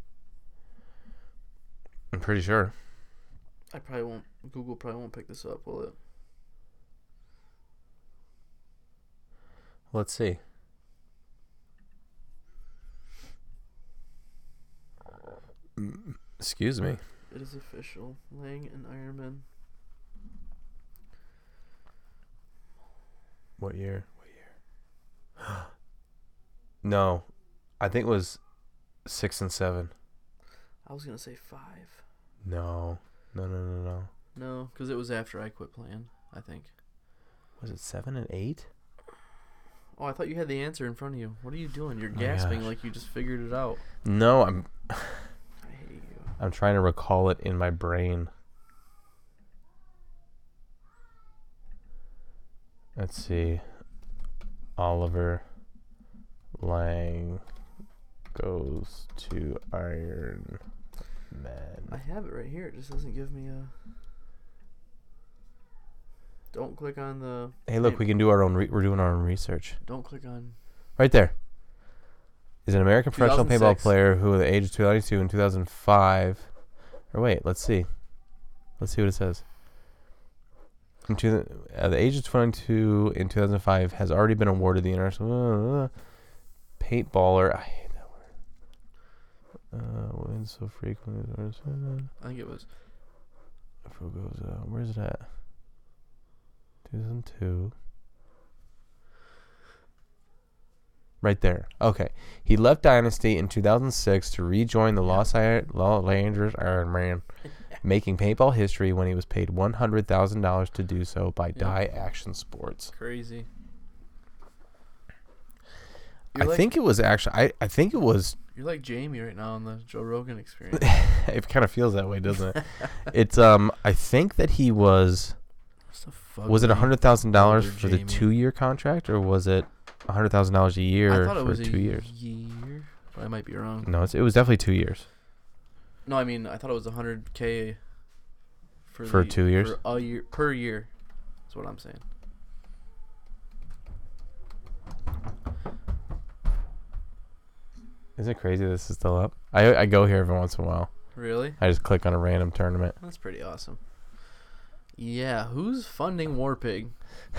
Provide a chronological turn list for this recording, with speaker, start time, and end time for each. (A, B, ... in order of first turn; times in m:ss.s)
0:02.1-0:02.7 A
0:03.7-0:06.0 B
0:09.9-0:10.4 A
0:15.8-0:17.0 A
0:17.3-0:19.4 B
0:23.6-0:24.5 A
0:25.4-0:25.7 A
0:26.8-0:27.3 A
0:27.8-0:28.4 A
0:29.0-0:29.9 A
0:30.8-0:32.0 B
0:32.4-0:34.1 A
0:34.4-0:36.7 B
0:37.6-0:38.7 A
0:40.0-0:43.8 B
0:42.1-0:42.7 A
0:44.0-0:45.3 A
0:45.6-0:46.3 B
0:46.4-0:48.3 A
0:53.0-0:53.6 A
0:54.8-0:55.4 A
0:56.6-0:57.4 A
0:58.3-1:00.6 A
1:01.3-1:01.9 A
1:01.9-1:03.7 B
1:06.5-1:08.1 B
1:07.7-1:09.8 A
1:09.8-1:10.6 B
1:11.0-1:11.3 A
1:12.7-1:16.5 A
1:13.2-1:13.9 B
1:17.1-1:17.9 A
1:18.8-1:19.4 A
1:21.1-1:25.9 A
1:26.8-1:28.2 A
1:29.7-1:32.1 A
1:32.2-1:32.7 B
1:33.8-1:35.3 A
1:36.9-1:37.7 A
1:41.2-1:47.2 A
1:47.8-1:52.9 A
1:52.9-1:53.5 B
1:56.3-1:56.7 B
1:56.3-1:58.4 A
1:58.5-2:00.9 B
2:00.7-2:05.4 A
2:05.9-2:08.3 B
2:06.5-2:12.1 A
2:11.1-2:13.9 B
2:13.8-2:15.0 A
2:16.0-2:17.8 B
2:18.9-2:20.9 B
2:19.0-2:19.8 A
2:21.5-2:22.0 B
2:28.2-2:33.0 A
2:31.1-2:31.6 B
2:33.0-2:33.8 B
2:35.0-2:37.0 B